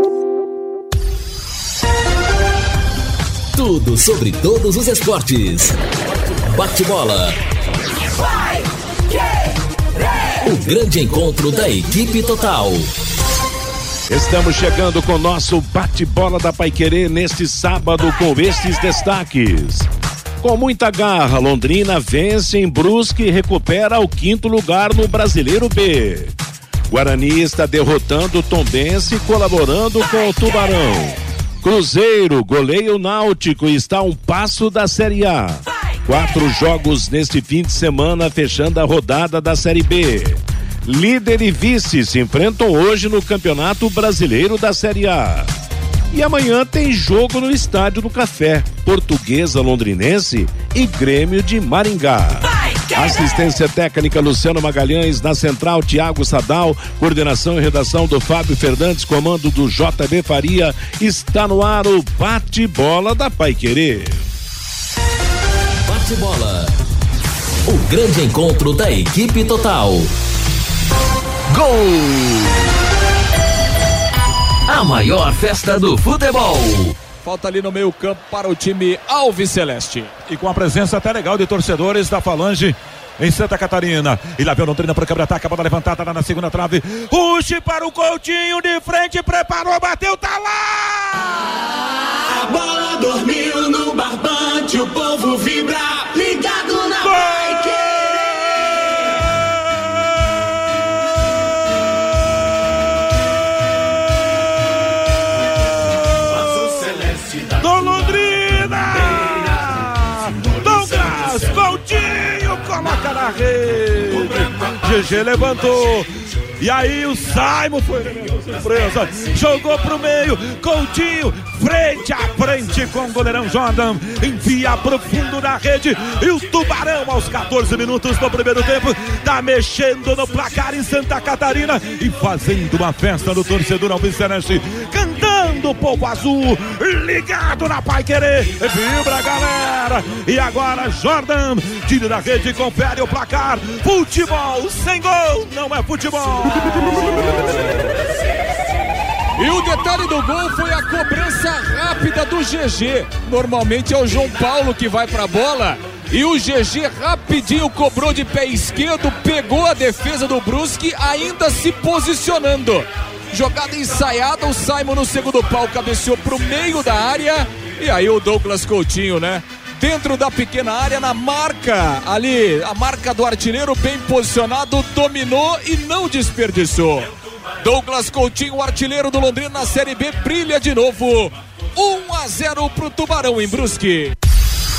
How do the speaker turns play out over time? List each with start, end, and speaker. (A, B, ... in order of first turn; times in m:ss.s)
0:03.5-0:05.8 A
0:06.5-0:07.4 A
0:10.4-0:12.9 A
0:14.1-0:19.9 B
0:20.4-0:26.4 B
0:26.9-0:45.5 B
0:46.1-1:04.2 B
1:05.8-1:06.7 A
1:07.7-1:10.1 A
1:11.5-1:12.6 A
1:14.7-1:17.0 A
1:17.2-1:20.2 C
1:20.2-1:31.5 D
1:32.6-1:35.7 E
1:36.5-1:36.8 E
1:36.9-1:37.9 D
1:47.6-1:56.1 D
1:56.6-2:27.4 D
2:29.4-2:57.1 C
2:57.6-3:04.1 C